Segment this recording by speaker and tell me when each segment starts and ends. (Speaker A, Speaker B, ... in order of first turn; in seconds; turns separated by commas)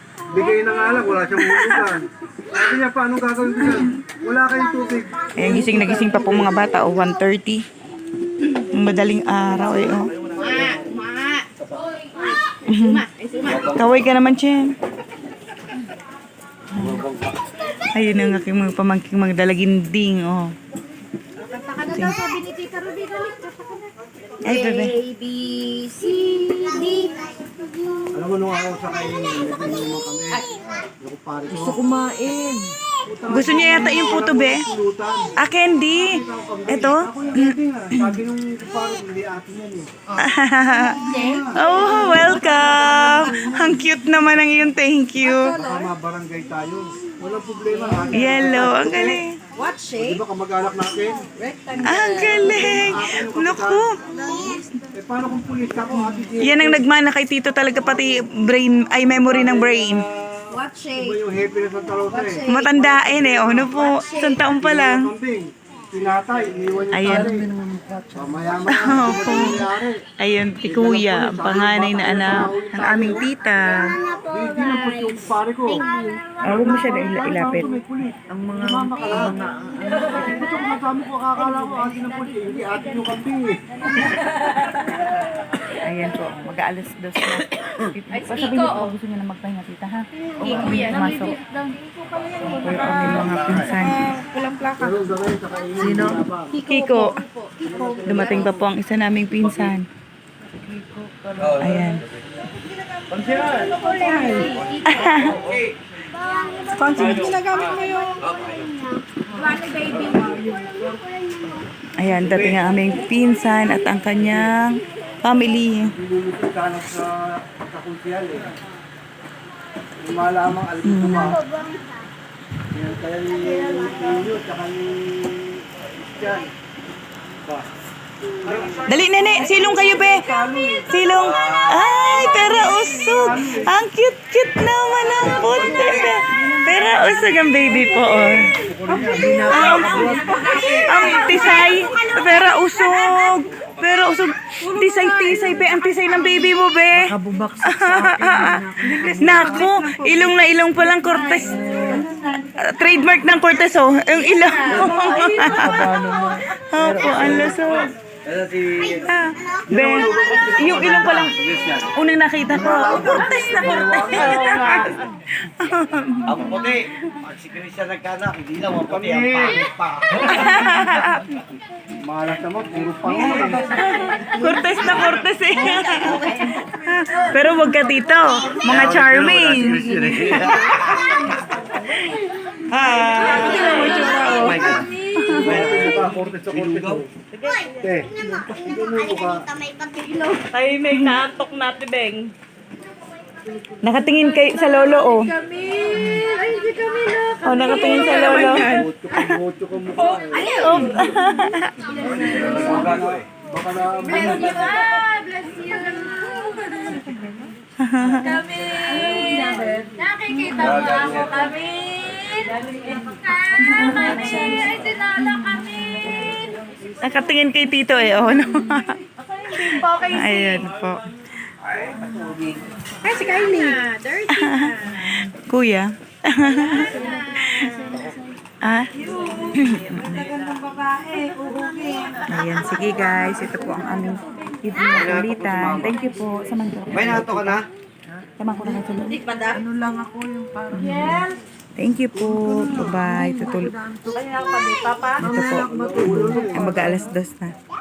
Speaker A: 0.3-6.5, Speaker B: 3.6-4.0, Speaker B: 5.4-7.6, Speaker B: 8.5-10.2, Speaker C: 10.3-14.0, Speaker B: 12.7-14.7, Speaker B: 16.7-17.1, Speaker B: 17.8-20.5, Speaker C: 21.4-28.0, Speaker B: 24.4-24.9, Speaker A: 28.1-30.5, Speaker A: 31.0-31.9, Speaker D: 31.6-32.7, Speaker A: 33.0-35.3, Speaker B: 33.3-34.6, Speaker B: 35.4-38.1, Speaker A: 35.9-40.2, Speaker B: 40.2-45.5, Speaker C: 40.8-43.7, Speaker A: 41.0-41.6, Speaker C: 45.2-45.9, Speaker A: 45.5-49.2, Speaker C: 47.7-48.1, Speaker B: 48.1-49.4, Speaker C: 49.5-50.2, Speaker A: 50.0-51.3, Speaker C: 51.3-52.8, Speaker B: 51.8-54.6, Speaker A: 52.4-53.9, Speaker C: 54.1-54.6, Speaker A: 54.9-56.8, Speaker B: 55.9-60.0, Speaker C: 60.5-61.2, Speaker A: 60.9-63.8, Speaker C: 62.1-64.4, Speaker B: 62.5-65.1, Speaker A: 64.5-67.5, Speaker B: 66.9-67.4, Speaker D: 67.0-68.2, Speaker A: 68.1-70.0, Speaker B: 68.7-69.6, Speaker B: 70.2-74.0, Speaker A: 70.6-73.3, Speaker A: 74.2-79.4, Speaker C: 76.0-76.2, Speaker B: 76.4-77.7, Speaker D: 78.3-79.9, Speaker E: 78.7-80.2, Speaker C: 79.9-80.7, Speaker A: 80.1-84.1, Speaker C: 81.5-82.8, Speaker C: 83.9-84.9, Speaker B: 85.7-91.4, Speaker C: 88.1-88.9, Speaker C: 90.2-95.1, Speaker B: 92.5-94.0, Speaker A: 94.8-96.5, Speaker D: 95.8-96.2, Speaker B: 96.5-97.2, Speaker C: 96.5-98.6, Speaker A: 97.6-98.4, Speaker B: 98.0-99.8, Speaker D: 100.6-101.9, Speaker E: 100.7-101.6, Speaker B: 101.6-102.0, Speaker C: 103.1-105.4, Speaker E: 103.9-104.6, Speaker B: 104.9-105.3, Speaker D: 105.1-105.6, Speaker E: 105.2-105.7, Speaker C: 106.3-111.7, Speaker D: 108.2-108.7, Speaker B: 112.0-115.9, Speaker A: 116.0-118.5, Speaker A: 120.0-121.4, Speaker B: 120.8-121.4, Speaker C: 121.5-121.8, Speaker A: 122.7-126.5, Speaker A: 128.4-130.9, Speaker B: 128.9-130.3, Speaker B: 130.9-138.5, Speaker D: 131.3-132.3, Speaker A: 132.4-133.7, Speaker D: 135.4-135.9, Speaker A: 138.3-140.5, Speaker E: 139.0-140.6, Speaker D: 139.2-140.0, Speaker B: 139.4-152.0, Speaker C: 139.9-141.8, Speaker D: 147.0-149.6, Speaker E: 148.9-149.7, Speaker C: 151.1-152.2, Speaker B: 152.6-156.1, Speaker C: 154.2-156.0, Speaker D: 155.5-157.6, Speaker B: 156.6-157.9, Speaker E: 157.1-157.6, Speaker E: 158.2-159.0, Speaker B: 159.0-161.4, Speaker E: 159.7-161.9, Speaker D: 159.8-161.0, Speaker B: 161.9-166.9, Speaker A: 162.5-164.6, Speaker E: 164.4-164.8, Speaker E: 166.3-170.6, Speaker A: 168.8-169.7, Speaker B: 170.2-171.3, Speaker A: 172.0-173.7, Speaker B: 173.2-180.7, Speaker C: 173.8-175.0, Speaker C: 175.6-176.5, Speaker E: 178.6-181.1, Speaker C: 182.5-185.5, Speaker B: 182.7-185.6, Speaker E: 182.8-183.6, Speaker E: 184.2-187.0, Speaker A: 185.3-187.1, Speaker A: 187.8-189.5, Speaker C: 189.8-191.2, Speaker B: 190.5-192.2, Speaker C: 193.7-198.9, Speaker B: 193.8-195.3, Speaker B: 195.9-196.2, Speaker B: 197.4-198.9, Speaker A: 198.1-200.6, Speaker C: 200.0-201.3, Speaker B: 200.4-201.7, Speaker C: 201.8-203.1, Speaker A: 202.2-204.8, Speaker E: 202.3-203.0, Speaker D: 202.3-203.2, Speaker C: 204.0-207.5, Speaker B: 207.8-208.4, Speaker C: 208.1-216.9, Speaker D: 210.6-211.4, Speaker B: 213.6-216.4, Speaker B: 217.0-219.0, Speaker C: 219.2-220.7, Speaker B: 219.5-221.1, Speaker E: 222.0-222.6, Speaker C: 223.0-225.3, Speaker B: 223.1-223.8, Speaker B: 224.3-227.9, Speaker C: 226.4-228.1, Speaker B: 228.6-228.9, Speaker C: 229.0-234.2, Speaker B: 229.5-230.3, Speaker B: 232.3-237.6, Speaker E: 234.9-236.0, Speaker E: 236.9-237.7, Speaker B: 238.4-239.2, Speaker C: 239.1-239.6, Speaker D: 239.5-240.8, Speaker E: 239.9-240.9, Speaker B: 240.7-243.7, Speaker C: 240.8-241.4, Speaker E: 242.2-243.6, Speaker D: 242.3-244.4, Speaker C: 244.1-245.4, Speaker B: 245.2-247.5, Speaker D: 245.2-246.6, Speaker A: 245.4-247.1, Speaker E: 245.4-246.7